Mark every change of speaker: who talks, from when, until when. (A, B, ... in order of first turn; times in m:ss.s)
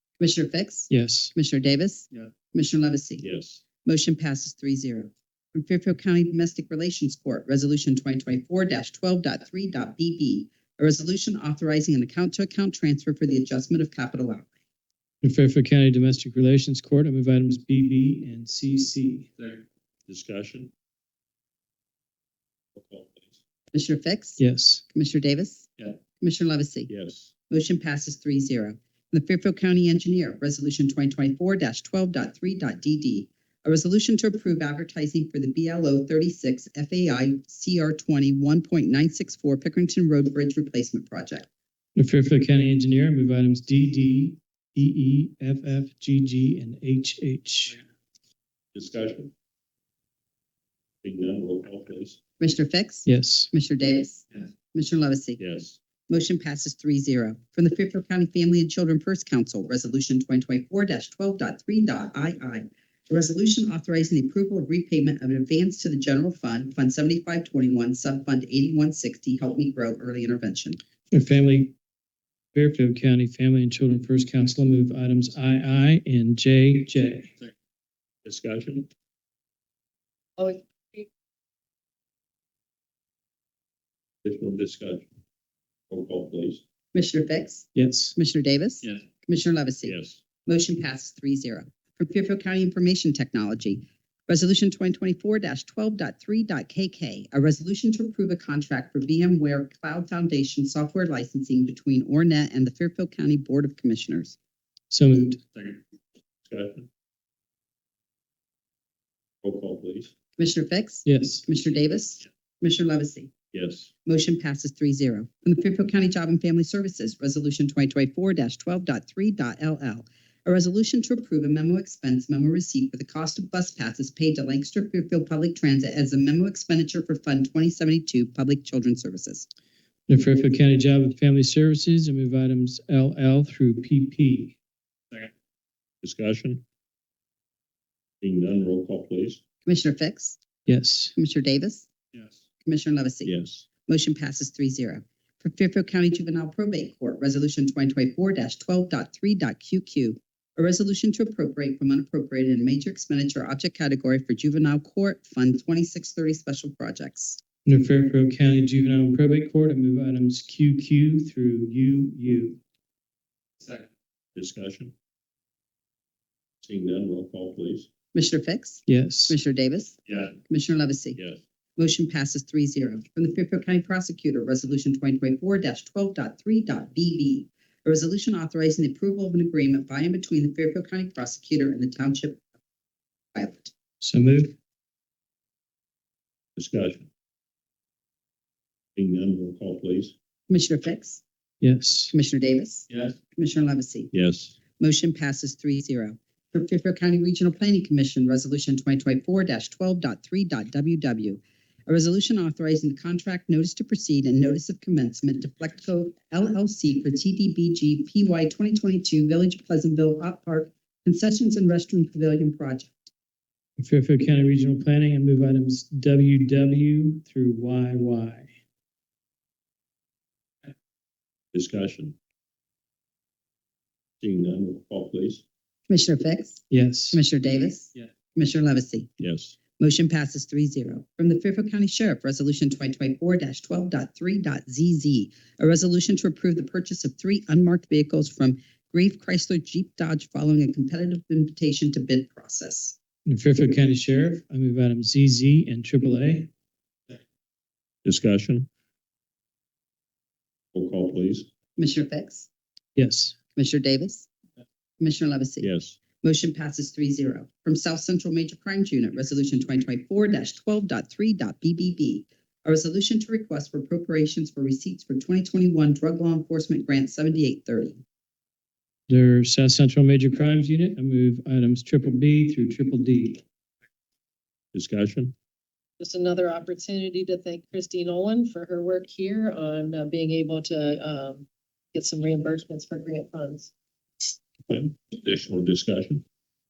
0:00.2-0:03.2 A
0:00.9-0:01.3 B
0:03.2-0:03.6 C
0:03.8-0:14.5 A
0:15.2-0:19.3 B
0:19.4-0:20.7 C
0:22.8-0:23.4 C
0:23.7-0:25.7 A
0:24.4-0:24.8 B
0:26.2-0:26.9 A
0:26.9-0:27.3 C
0:27.5-0:41.5 A
0:42.0-0:47.8 B
0:48.7-0:49.3 C
0:51.0-0:52.2 C
0:52.4-0:55.4 A
0:53.1-0:53.5 B
0:55.4-0:55.8 C
0:56.1-1:10.8 A
1:11.1-1:11.7 B
1:12.5-1:17.3 B
1:18.2-1:18.9 C
1:20.4-1:21.1 D
1:24.2-1:25.1 C
1:25.9-1:26.6 C
1:26.9-1:44.4 A
1:27.8-1:28.2 B
1:29.8-1:30.2 C
1:44.9-1:45.4 B
1:46.5-1:46.9 C
1:49.4-1:50.1 C
1:50.4-1:53.3 A
1:51.0-1:51.4 B
1:53.5-1:53.9 C
1:54.0-2:09.5 A
2:10.1-2:14.6 B
2:16.0-2:16.6 C
2:18.2-2:19.4 C
2:19.7-2:20.4 A
2:20.7-2:21.2 B
2:21.2-2:21.9 A
2:22.6-2:37.4 A
2:23.2-2:23.7 C
2:37.6-2:42.6 B
2:44.4-2:44.9 C
2:46.6-2:47.9 C
2:48.1-2:51.2 A
2:48.9-2:49.4 B
2:51.8-3:02.4 A
3:03.4-3:03.7 A
3:04.0-3:04.5 B
3:06.6-3:07.1 C
3:09.0-3:10.2 C
3:10.5-3:11.2 A
3:11.6-3:12.1 B
3:12.1-3:14.1 A
3:14.1-3:14.6 C
3:14.8-3:32.9 A
3:33.8-3:38.5 B
3:41.5-3:42.2 C
3:44.2-3:45.4 C
3:45.9-3:49.1 A
3:46.7-3:47.2 B
3:49.2-3:49.6 C
3:49.7-4:03.0 A
4:03.3-4:06.5 B
4:08.0-4:08.7 C
4:10.7-4:11.5 C
4:11.8-4:12.5 A
4:13.0-4:13.4 B
4:13.6-4:14.3 A
4:15.0-4:28.0 A
4:15.6-4:16.0 C
4:29.1-4:33.4 B
4:34.7-4:35.4 C
4:36.0-4:43.7 D
4:44.7-4:46.2 C